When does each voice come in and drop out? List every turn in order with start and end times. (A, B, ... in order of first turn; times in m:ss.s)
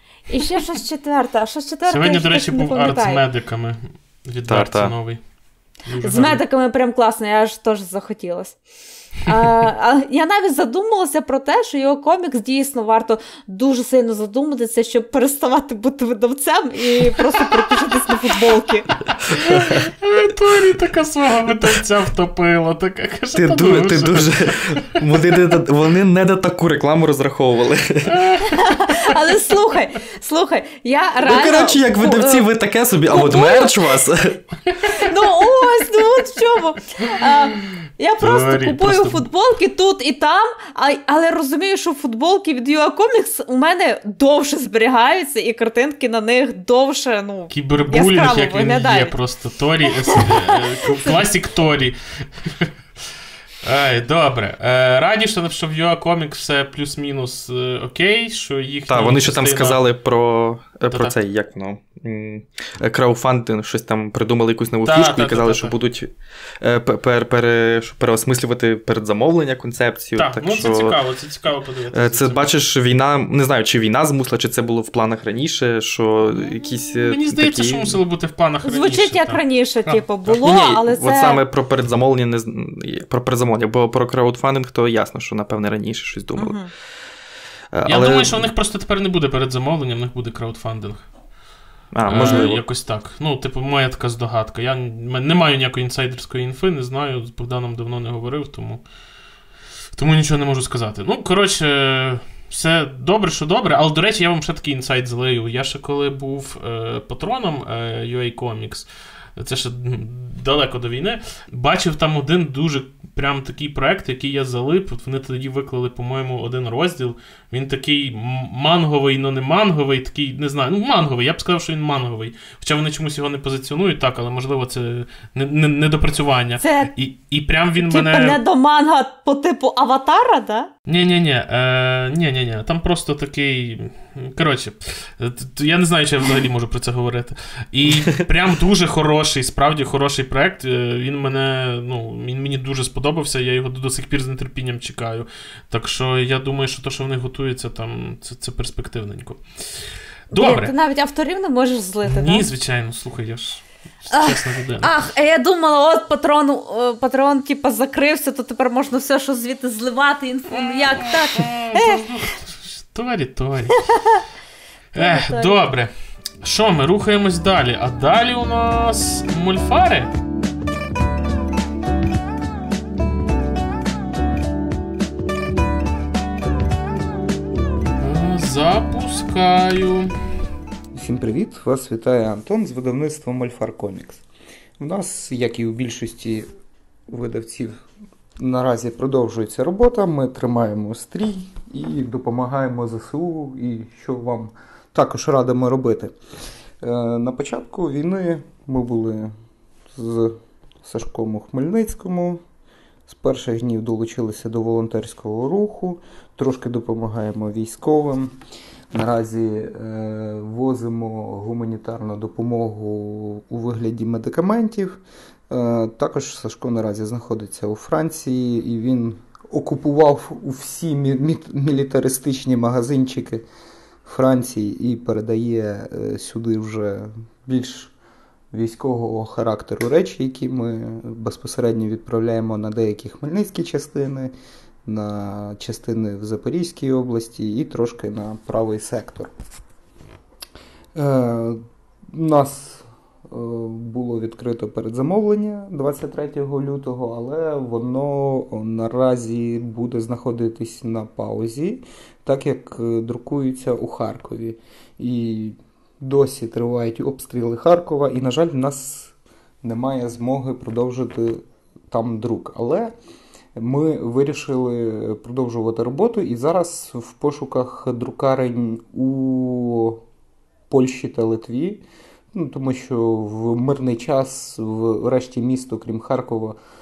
0:00.3-0:03.2 A
0:01.9-0:05.2 B
0:04.5-0:04.9 C
0:05.9-0:06.4 B
0:06.0-0:08.6 A
0:09.2-0:18.9 A
0:19.3-0:25.4 B
0:19.3-0:19.9 C
0:23.3-0:28.6 C
0:28.1-0:28.4 B
0:28.4-0:32.4 A
0:31.2-0:34.4 C
0:33.1-0:34.0 A
0:34.8-0:49.1 A
0:38.2-0:39.3 B
0:47.5-0:52.7 B
0:50.1-0:50.5 A
0:53.6-0:59.8 B
0:58.9-1:11.0 C
1:00.9-1:01.2 B
1:04.8-1:05.8 B
1:10.2-1:12.5 B
1:11.9-1:18.0 C
1:16.8-1:19.4 B
1:18.6-1:21.4 A
1:19.9-1:26.6 C
1:26.4-1:26.7 A
1:27.7-1:28.5 C
1:27.8-1:31.0 B
1:31.9-1:32.6 C
1:32.0-1:38.8 B
1:32.2-1:32.5 A
1:39.9-2:08.4 B
2:06.6-2:06.9 A
2:07.8-2:10.7 A
2:10.9-2:30.7 B
2:30.3-2:32.4 A
2:32.0-2:34.9 B
2:34.1-2:42.0 A
2:40.5-2:43.8 B
2:43.9-2:44.2 A
2:44.9-2:45.9 B
2:45.0-2:45.6 A
2:46.4-2:50.1 B
2:58.0-3:00.1 B
3:00.9-3:04.2 D
3:04.8-3:06.5 D
3:07.1-3:07.8 D
3:08.4-3:16.1 D
3:16.8-3:19.3 D
3:19.9-3:22.4 D
3:23.1-3:28.3 D
3:28.9-3:43.4 D
3:44.0-3:47.9 D
3:48.5-3:54.3 D
3:54.8-3:59.3 D
4:00.9-4:22.9 D
4:23.6-4:30.0 D
4:30.7-4:36.6 D